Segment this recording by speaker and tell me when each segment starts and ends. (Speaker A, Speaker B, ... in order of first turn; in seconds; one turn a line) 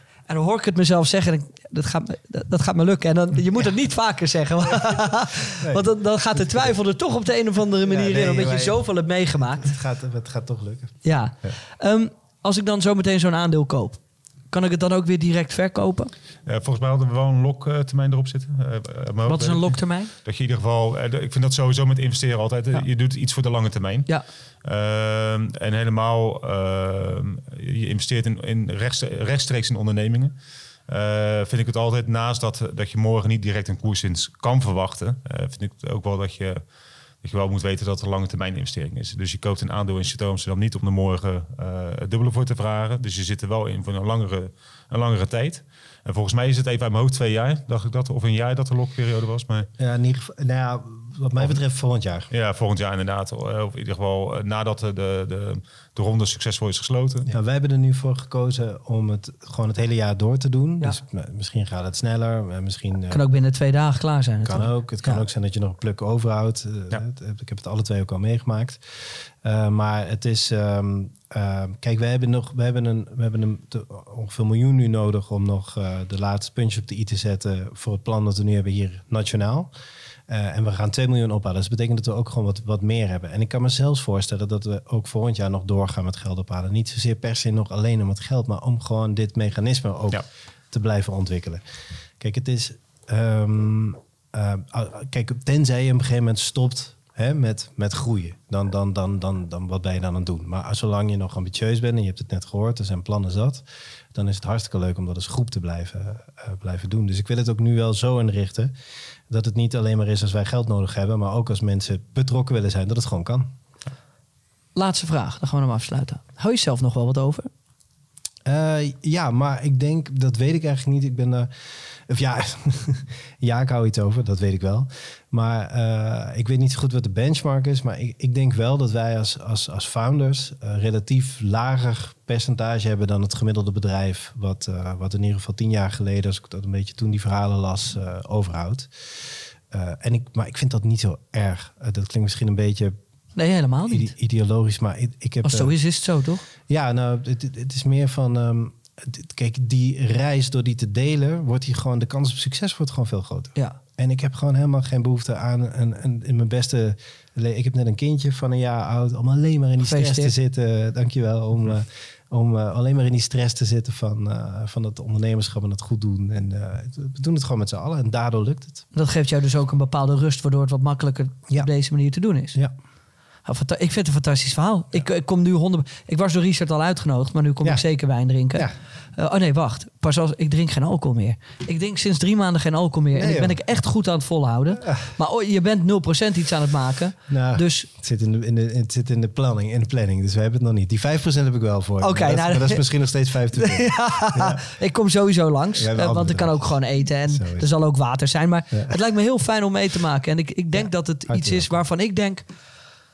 Speaker A: 0.3-9.7
Speaker B: 5.6-6.7
Speaker B: 7.8-8.8
Speaker B: 9.5-11.0
Speaker A: 11.0-16.1
Speaker C: 16.5-30.4
Speaker A: 19.3-20.1
Speaker C: 30.9-36.6
Speaker C: 37.2-49.7
Speaker B: 49.8-52.3
Speaker C: 52.3-57.3
Speaker B: 57.3-63.2
Speaker A: 63.1-65.2
Speaker B: 64.5-79.7
Speaker B: 80.3-91.6
Speaker B: 92.2-108.7
Speaker B: 109.3-113.5
Speaker A: 114.8-117.5
Speaker B: 118.5-142.9
Speaker A: 143.4-144.1
Speaker B: 143.9-145.7
Speaker A: 145.4-146.4
Speaker B: 146.7-168.8
Speaker A: 159.8-160.3
Speaker A: 168.9-172.6
Speaker A: 173.4-187.9
Speaker B: 183.2-183.6
Speaker B: 184.8-185.1
Speaker B: 187.3-194.6
Speaker A: 192.0-192.8
Speaker A: 193.6-202.5
Speaker B: 195.8-197.7
Speaker B: 198.7-199.0
Speaker B: 200.7-201.8